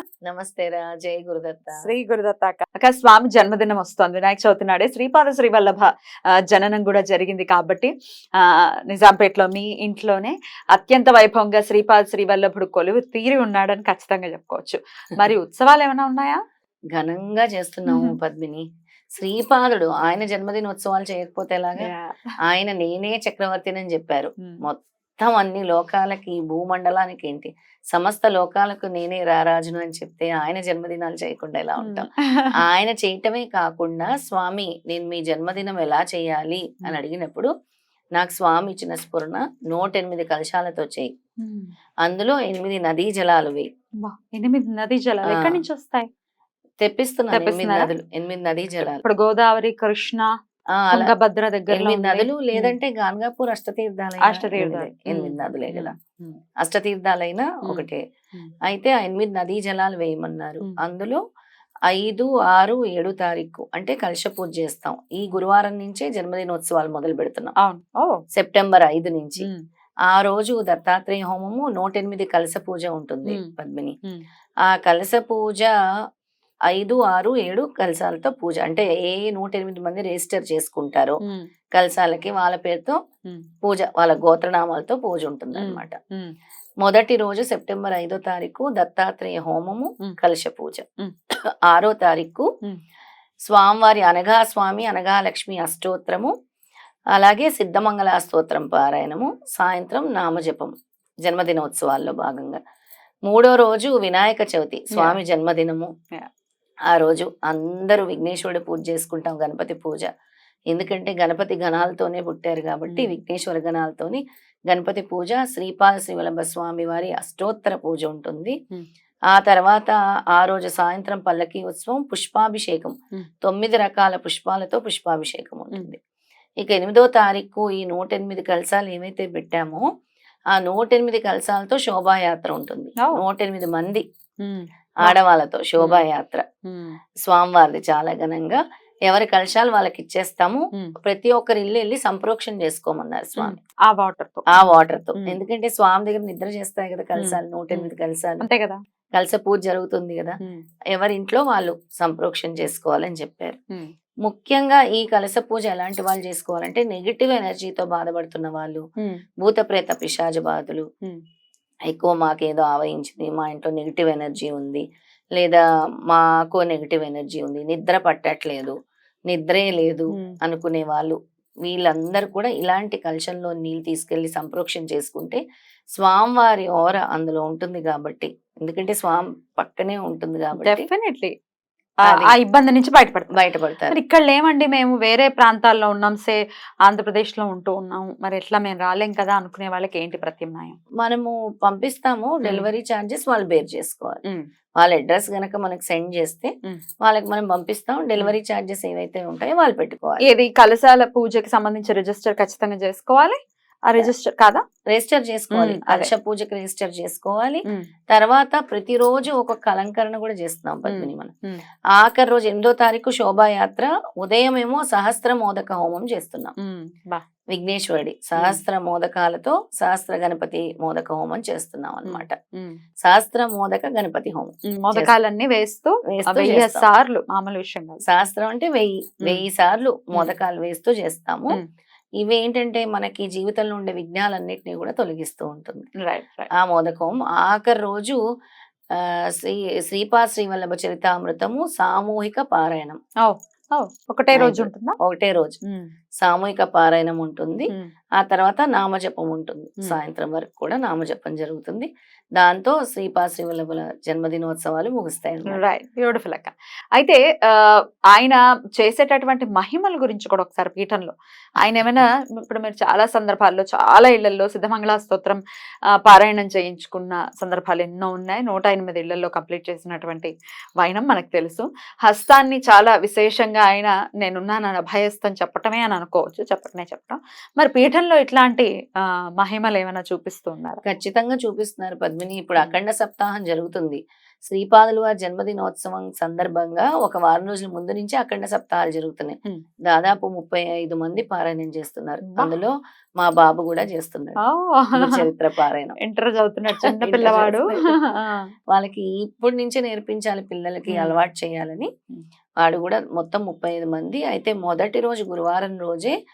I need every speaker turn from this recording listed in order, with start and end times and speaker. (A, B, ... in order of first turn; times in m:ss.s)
0:00.3-0:01.9 A
0:01.8-0:16.4 B
0:16.9-0:21.9 A
0:17.9-0:18.1 B
0:21.8-0:22.3 B
0:22.4-0:32.1 A
0:31.8-0:32.6 B
0:32.6-0:37.5 A
0:38.2-0:41.1 A
0:41.4-0:41.7 B
0:42.0-0:43.7 A
0:44.0-0:46.1 B
0:45.3-0:45.6 A
0:46.8-0:49.0 A
0:47.3-0:47.9 B
0:49.0-0:50.3 B
0:50.8-0:51.1 A
0:50.9-0:52.8 B
0:51.7-0:55.9 A
0:54.2-0:56.4 B
0:56.6-0:58.0 A
0:57.6-0:58.5 B
0:58.7-1:01.2 A
1:01.9-1:07.5 A
1:07.6-1:08.2 B
1:08.3-1:09.5 A
1:10.1-1:14.0 A
1:14.7-1:15.7 A
1:16.7-1:21.2 A
1:21.2-1:21.5 B
1:21.7-1:23.0 A
1:23.6-1:26.0 A
1:25.6-1:26.3 B
1:26.8-1:30.8 A
1:31.7-1:32.5 A
1:33.5-1:36.3 A
1:37.1-1:40.7 A
1:41.2-1:42.6 A
1:43.3-1:45.9 A
1:44.9-1:45.2 B
1:46.9-1:50.1 A
1:50.7-1:58.6 A
1:52.9-1:53.2 B
1:59.3-2:06.0 A
2:06.6-2:09.8 A
2:10.5-2:14.0 A
2:14.4-2:15.2 B
2:15.0-2:16.4 A
2:16.7-2:17.0 B
2:17.2-2:23.6 A
2:23.4-2:25.4 B
2:24.5-2:28.5 A
2:27.2-2:28.8 B
2:29.1-2:30.4 A
2:30.9-2:33.6 A
2:34.2-2:38.8 A
2:39.4-2:40.8 A
2:41.9-2:44.8 A
2:45.4-2:48.8 A
2:49.3-2:55.4 A
2:56.0-3:00.8 A
3:00.5-3:01.3 B
3:02.0-3:03.4 B
3:02.1-3:02.3 A
3:03.3-3:04.0 A
3:03.9-3:10.8 B
3:11.0-3:14.2 A
3:14.8-3:16.5 A
3:17.0-3:20.2 A
3:20.2-3:24.6 B
3:24.9-3:31.3 A
3:25.5-3:26.1 B
3:30.9-3:31.6 B
3:31.9-3:36.5 A
3:36.6-3:37.2 B
3:37.5-3:42.4 A
3:42.1-3:42.8 B
3:43.0-3:45.1 A
3:44.7-3:48.0 B
3:46.1-3:46.9 A
3:48.0-3:51.6 A
3:52.2-3:55.9 A
3:56.0-3:56.5 B
3:56.6-3:58.2 A
3:59.0-4:03.0 A
4:03.2-4:05.0 B
4:04.4-4:05.6 A
4:06.2-4:15.6 A
4:15.5-4:25.4 B
4:26.0-4:40.8 B
4:40.8-4:54.4 A
4:52.3-4:52.5 B
4:54.4-4:55.2 B
4:55.0-4:56.0 A
4:56.0-4:58.5 B
4:56.8-4:57.9 A
4:58.7-5:01.9 A
5:00.9-5:01.2 B
5:02.6-5:06.2 A